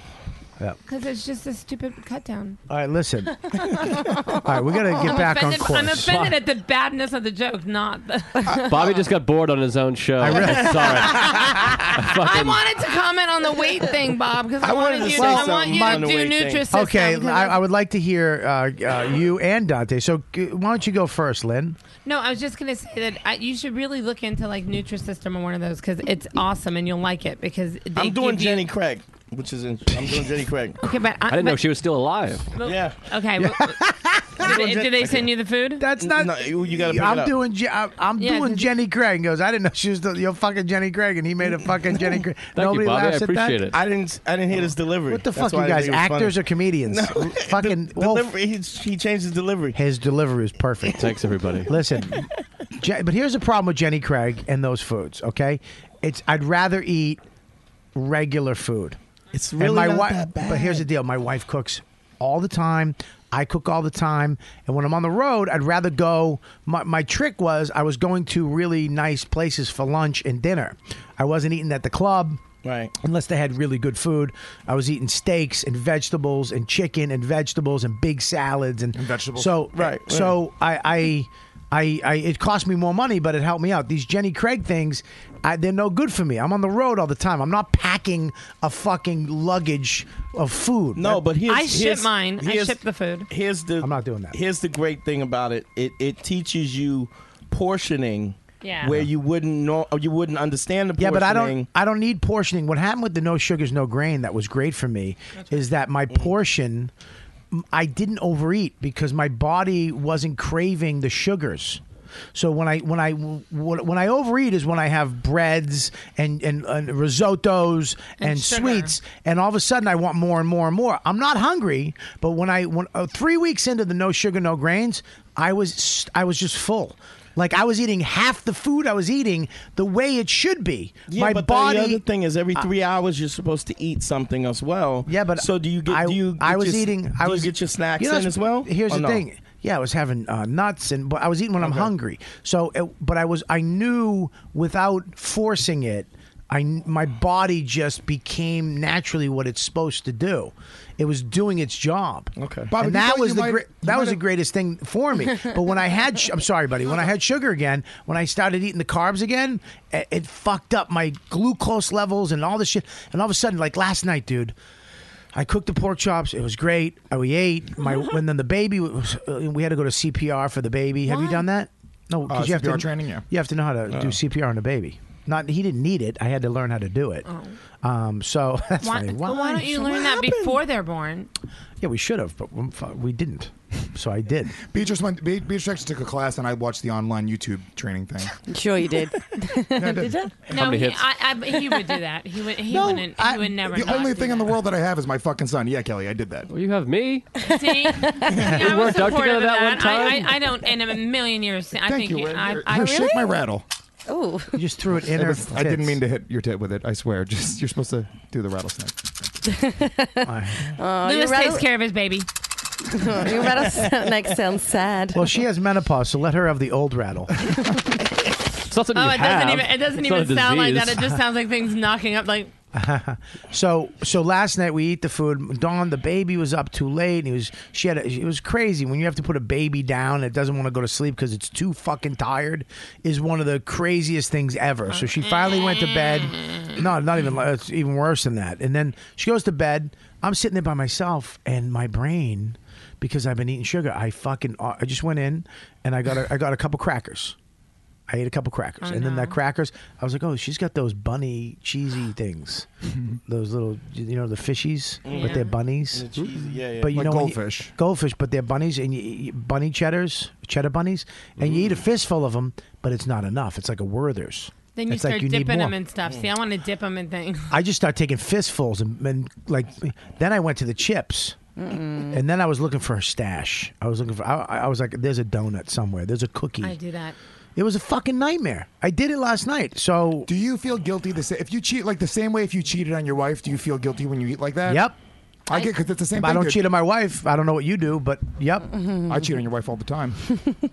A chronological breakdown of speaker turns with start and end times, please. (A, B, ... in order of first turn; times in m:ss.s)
0:00.9-0:02.6 A
0:02.7-0:03.6 B
0:04.3-0:06.4 B
0:04.9-0:09.0 A
0:08.5-0:12.7 C
0:10.2-0:11.8 B
0:10.3-0:10.8 D
0:12.2-0:17.6 A
0:14.6-0:16.7 D
0:15.1-0:16.1 B
0:16.7-0:21.8 B
0:22.0-0:28.7 A
0:28.0-0:30.8 D
0:30.8-0:31.6 A
0:31.3-0:32.5 C
0:32.5-0:33.8 A
0:32.6-0:33.0 D
0:33.4-0:34.6 B
0:34.4-0:35.8 A
0:34.4-0:35.2 D
0:35.8-0:43.6 B
0:36.0-0:37.3 D
0:38.2-0:38.7 A
0:42.6-0:43.8 C
0:43.7-0:46.4 D
0:45.1-0:48.3 B
0:46.9-0:49.8 D
0:49.8-0:51.1 B
0:50.9-0:51.7 C
0:51.7-0:57.2 B
0:58.0-0:59.0 B
0:59.3-1:00.8 D
0:59.6-1:12.4 B
1:12.6-1:12.9 D
1:13.0-1:31.2 B
1:19.0-1:19.6 E
1:19.7-1:20.3 D
1:31.0-1:41.7 D
1:31.5-1:33.3 A
1:33.8-1:34.4 B
1:38.6-1:39.0 A
1:41.0-1:46.9 B
1:47.5-1:51.8 B
1:52.3-2:12.0 B
1:58.2-1:59.0 A
2:11.1-2:19.2 D
2:15.1-2:44.6 B
2:21.6-2:21.9 D
2:32.4-2:32.7 D
2:32.7-2:34.2 E
2:45.3-2:57.2 B
2:51.1-2:51.4 A
2:52.3-2:53.2 E
2:53.9-2:54.2 D
2:57.3-2:57.5 A
2:57.8-3:00.0 B
2:58.8-3:01.3 A
2:59.9-3:00.6 D
3:01.8-3:04.6 B
3:04.7-3:08.4 E
3:08.5-3:10.4 F
3:09.8-3:10.2 E
3:10.5-3:14.5 A
3:10.5-3:11.1 C
3:12.7-3:13.8 B
3:13.6-3:16.5 E
3:16.5-3:17.3 C
3:17.4-3:18.5 F
3:17.5-3:23.3 A
3:18.2-3:20.4 C
3:21.9-3:23.6 E
3:22.7-3:23.3 F
3:24.1-3:24.6 F
3:24.5-3:26.0 B
3:25.1-3:29.1 E
3:29.5-3:31.7 F
3:30.2-3:30.7 B
3:31.0-3:32.3 A
3:32.9-3:35.3 F
3:35.1-3:37.3 B
3:38.7-3:41.2 C
3:38.9-3:42.5 A
3:42.7-4:07.4 B
4:08.1-4:12.7 B
4:08.8-4:09.4 A
4:13.3-4:16.1 B
4:15.0-4:15.4 D
4:15.1-4:15.5 A
4:15.9-4:16.9 D
4:16.8-4:25.8 B
4:16.9-4:17.7 E
4:24.8-4:27.5 A
4:27.5-4:31.4 B
4:31.6-4:32.2 F
4:32.1-4:36.8 B
4:36.6-4:37.2 A
4:37.6-4:40.3 B
4:40.3-4:44.9 E
4:44.7-4:45.0 B
4:45.5-4:46.6 E
4:46.2-4:48.7 B
4:49.1-4:50.2 E